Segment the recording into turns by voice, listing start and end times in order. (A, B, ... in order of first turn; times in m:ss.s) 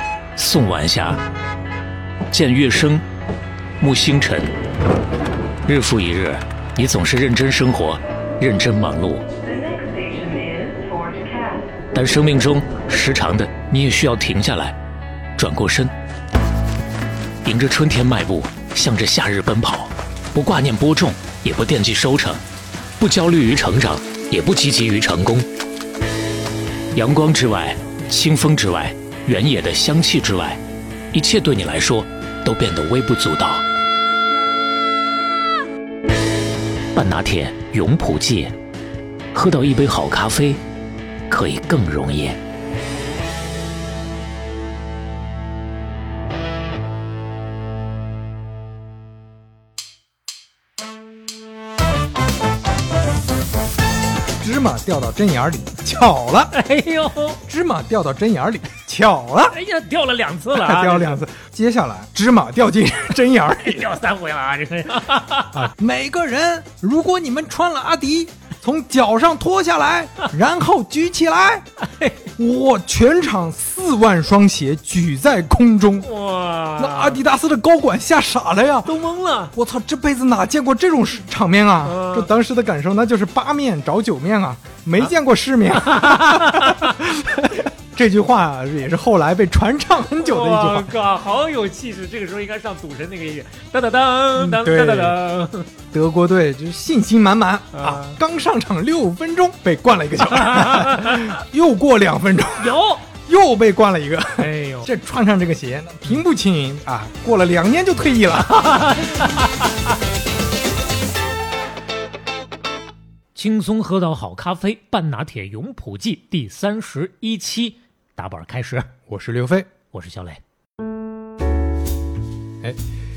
0:00.4-0:01.2 A
0:02.3-0:03.0 A
0:03.8-0:04.5 A
0:05.7-0:09.2 A
0:09.4-0:11.8 B
0:11.9-0:14.8 A
0:15.4-0:15.9 A
0:17.4-0:22.4 A
0:23.0-0:25.4 A
0:27.0-0:30.6 A
0:31.1-0:33.6 A
0:37.0-0:38.5 A
0:39.3-0:40.6 A
0:41.3-0:42.4 A
0:54.4-0:56.6 C
0:56.5-0:57.4 A
0:57.4-0:59.6 C
0:59.5-1:01.2 A
1:00.5-1:04.0 C
1:03.6-1:05.7 A
1:05.5-1:11.7 C
1:11.8-1:12.3 A
1:12.4-1:16.1 C
1:16.0-1:17.2 A
1:16.8-1:19.0 C
1:18.8-1:19.5 A
1:19.5-1:30.9 C
1:21.8-1:22.3 A
1:25.8-1:27.0 A
1:30.2-1:35.7 A
1:34.4-1:35.2 C
1:35.9-1:48.8 C
1:37.7-1:38.2 A
1:40.2-1:41.4 A
1:42.6-1:43.0 A
1:44.4-1:44.9 A
1:48.5-1:49.7 A
1:53.4-1:58.9 A
1:59.1-1:59.7 C
1:59.9-2:00.4 A